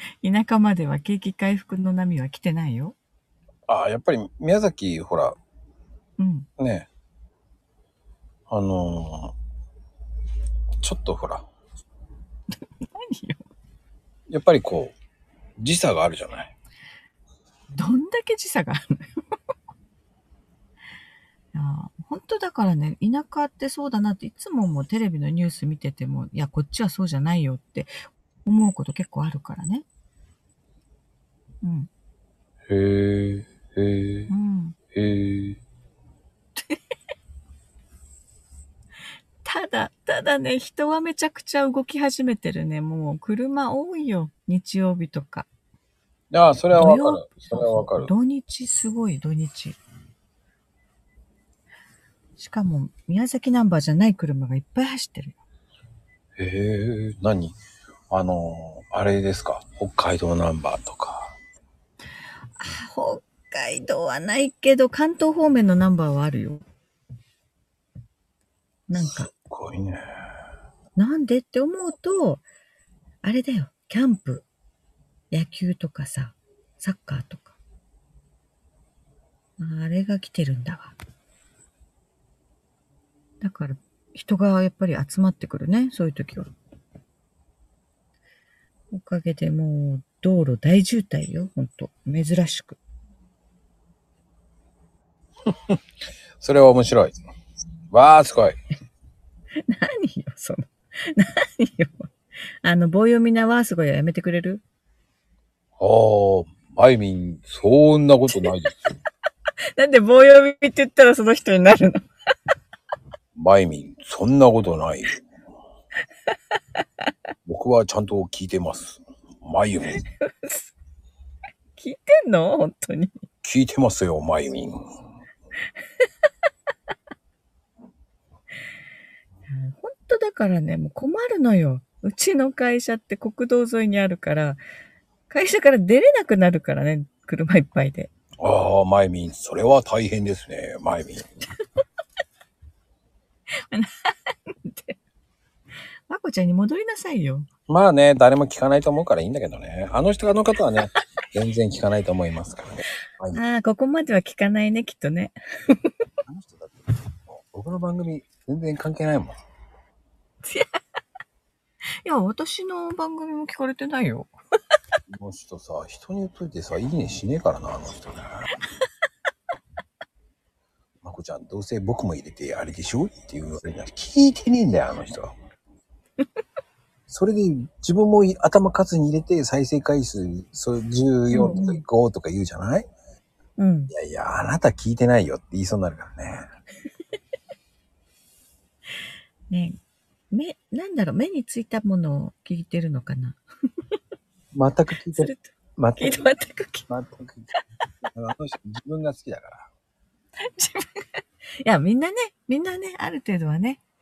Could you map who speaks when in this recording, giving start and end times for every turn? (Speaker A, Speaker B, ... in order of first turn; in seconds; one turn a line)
Speaker A: 0.2-3.0
Speaker B: 3.7-5.4
Speaker A: 6.2-6.5
Speaker B: 6.6-6.9
Speaker B: 8.5-9.3
Speaker B: 10.8-11.5
Speaker A: 12.8-13.4
Speaker B: 14.3-14.9
Speaker B: 15.6-16.5
Speaker A: 17.7-19.1
Speaker A: 21.5-27.9
Speaker A: 28.4-29.9
Speaker A: 31.6-31.9
Speaker B: 32.7-34.3
Speaker A: 34.3-34.8
Speaker B: 34.9-35.6
Speaker A: 39.4-45.5
Speaker B: 46.3-48.1
Speaker A: 46.7-49.8
Speaker A: 52.4-55.4
Speaker B: 56.4-57.6
Speaker B: 58.1-61.4
Speaker A: 62.6-66.6
Speaker A: 68.9-69.3
Speaker B: 68.9-70.0
Speaker A: 71.0-72.4
Speaker A: 73.2-74.5
Speaker A: 75.3-77.5
Speaker A: 79.6-81.0
Speaker A: 83.4-86.5
Speaker A: 88.9-92.8
Speaker B: 95.5-95.8
Speaker B: 96.4-97.2
Speaker B: 97.9-98.6
Speaker A: 99.7-104.6
Speaker B: 105.8-108.9
Speaker A: 109.7-112.1
Speaker B: 113.3-115.2
Speaker B: 117.5-120.0
Speaker A: 120.0-120.7
Speaker A: 121.8-123.2
Speaker B: 123.4-124.8
Speaker A: 129.5-134.6
Speaker A: 135.3-138.1
Speaker B: 138.4-141.2
Speaker A: 143.7-145.0
Speaker A: 146.1-147.5
Speaker B: 147.7-153.4
Speaker A: 153.3-155.9
Speaker B: 156.3-159.4
Speaker A: 160.5-160.8
Speaker A: 162.0-164.3
Speaker B: 165.1-168.5
Speaker B: 171.0-175.3
Speaker B: 177.1-182.9
Speaker A: 181.3-181.8
Speaker A: 183.6-183.9
Speaker B: 183.9-186.4
Speaker A: 189.5-189.8
Speaker A: 190.3-193.4
Speaker B: 194.5-196.3
Speaker A: 195.1-196.9
Speaker B: 196.9-197.5
Speaker B: 198.1-199.7
Speaker A: 200.5-203.8